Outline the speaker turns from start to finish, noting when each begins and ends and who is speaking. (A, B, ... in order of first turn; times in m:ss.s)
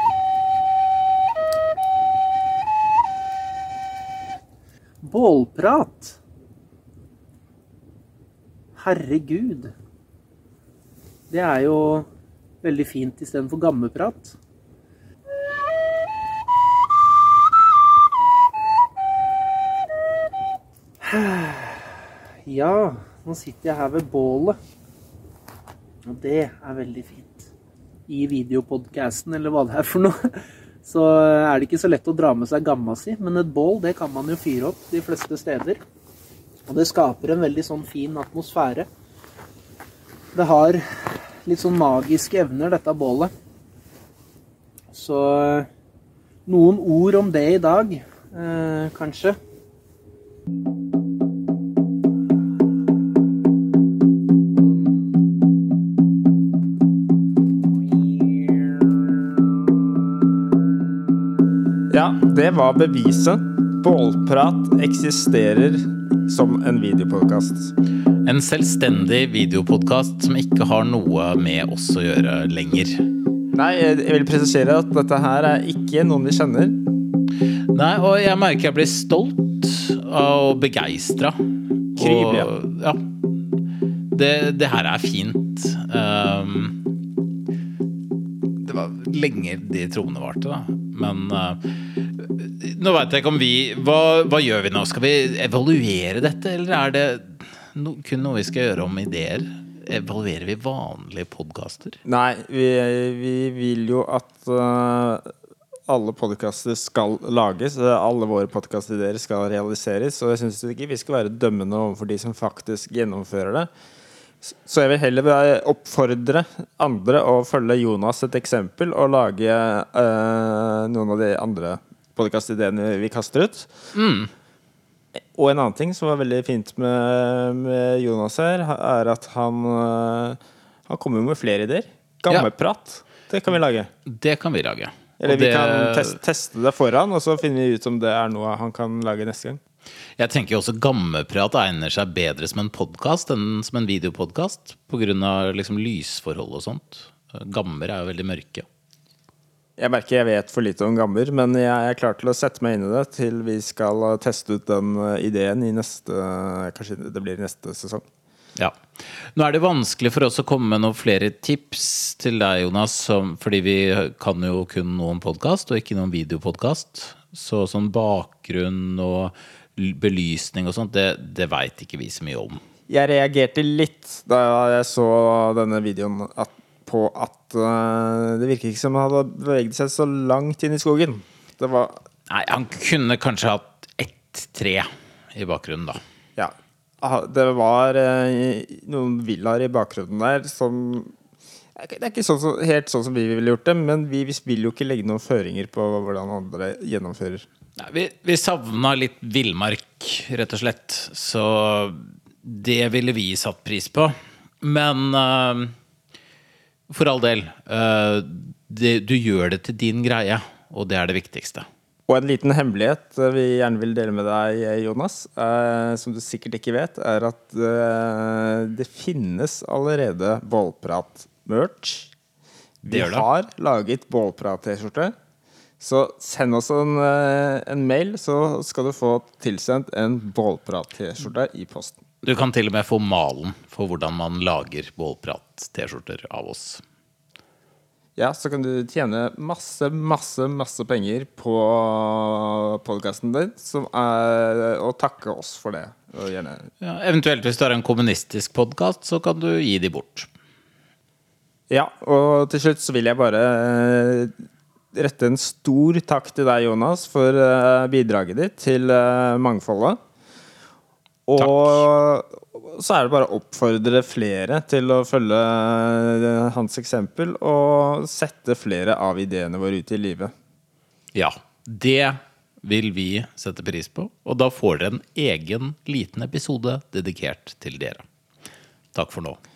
0:05.0-0:06.2 A
0:08.8-0:09.7 A
0:11.3-0:12.1 A
0:12.6-0:14.4 A
0:21.0-0:24.6 A
0:26.1-0:27.5 A
0:28.1-0:35.8 A
0:36.7-0:38.9 A
0:40.4-0:43.3 A
0:44.9-0:45.7 A
0:46.5-0:49.4 A
0:54.6-0:55.0 A
0:57.8-0:59.0 A
1:01.9-1:07.7 B
1:08.2-1:13.0 C
1:13.5-1:16.8 B
1:17.7-1:21.4 C
1:21.9-1:23.0 C
1:22.0-1:22.5 B
1:24.1-1:26.8 C
1:28.6-1:31.6 C
1:32.2-1:42.0 C
1:42.0-1:45.3 B
1:45.9-1:53.7 B
1:54.4-2:03.7 B
2:03.9-2:04.3 C
2:05.4-2:13.9 B
2:14.1-2:16.2 C
2:15.2-2:19.6 B
2:20.2-2:28.7 C
2:29.8-2:38.0 B
2:39.3-2:52.6 C
2:52.9-3:02.0 B
3:02.3-3:06.0 C
3:06.4-3:11.1 B
3:11.8-3:17.5 B
3:17.8-3:25.7 C
3:26.9-3:31.7 C
3:32.1-3:42.1 B
3:42.8-3:45.1 B
3:42.9-3:43.3 C
3:45.8-3:52.0 B
3:52.2-3:56.8 C
3:58.2-4:06.7 B
4:06.8-4:10.3 C
4:11.7-4:14.3 B
4:14.9-4:20.0 B
4:21.3-4:30.3 B
4:21.4-4:21.8 C
4:31.1-4:38.0 C
4:38.9-4:39.4 C